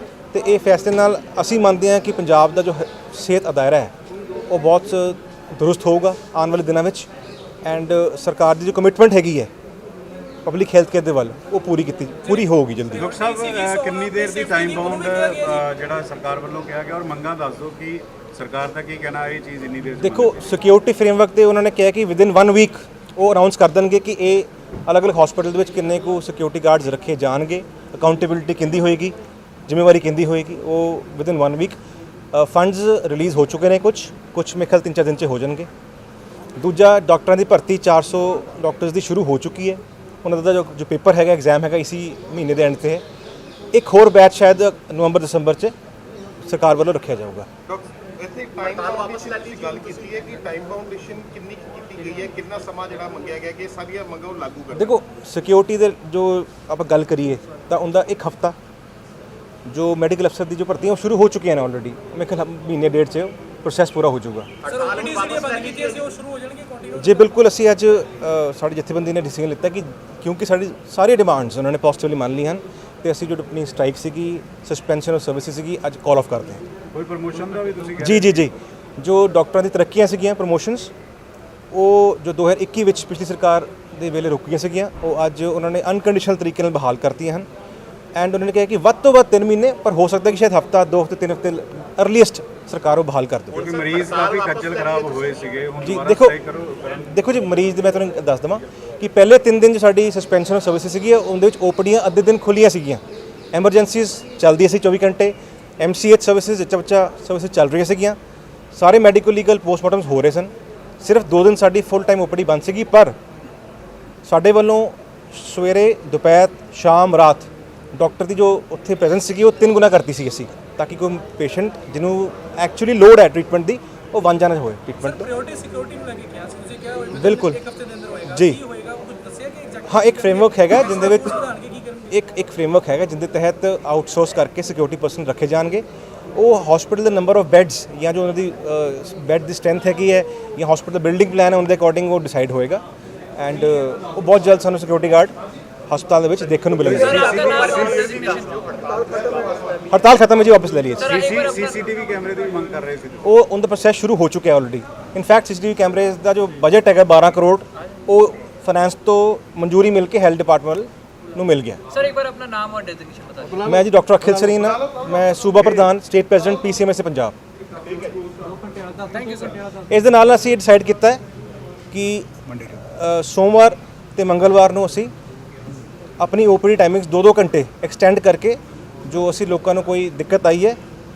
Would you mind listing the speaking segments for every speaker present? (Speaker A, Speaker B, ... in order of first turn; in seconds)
Speaker A: 0.3-3.9, 4.5-7.1, 7.7-9.5, 10.5-13.1, 20.0-29.1, 29.7-31.8, 32.3-35.7, 36.6-43.0, 43.7-45.7, 46.5-47.5, 54.7-58.5, 59.7-64.5, 67.0-76.6, 78.0-80.9, 81.7-87.5, 88.2-93.7, 95.8-96.4, 97.1-103.0, 103.5-108.2, 108.7-113.2, 114.2-125.3, 127.1-127.6, 128.2-128.6, 129.9-131.4, 132.1-142.8, 143.4-145.3, 145.9-147.4, 149.9-151.2, 153.2-161.8, 163.6-167.4, 169.9-171.2, 171.9-172.3, 172.8-175.1, 176.2-180.8
Speaker B: 13.0-20.4, 76.9-78.4, 93.5-97.1, 146.8-148.5, 151.0-153.3, 163.4-164.6, 172.5-172.8
Speaker C: 13.1-15.5, 64.7-67.1, 125.2-131.9
Speaker D: 47.7-54.9
Speaker E: 48.6-50.1, 147.6-148.5, 162.0-163.4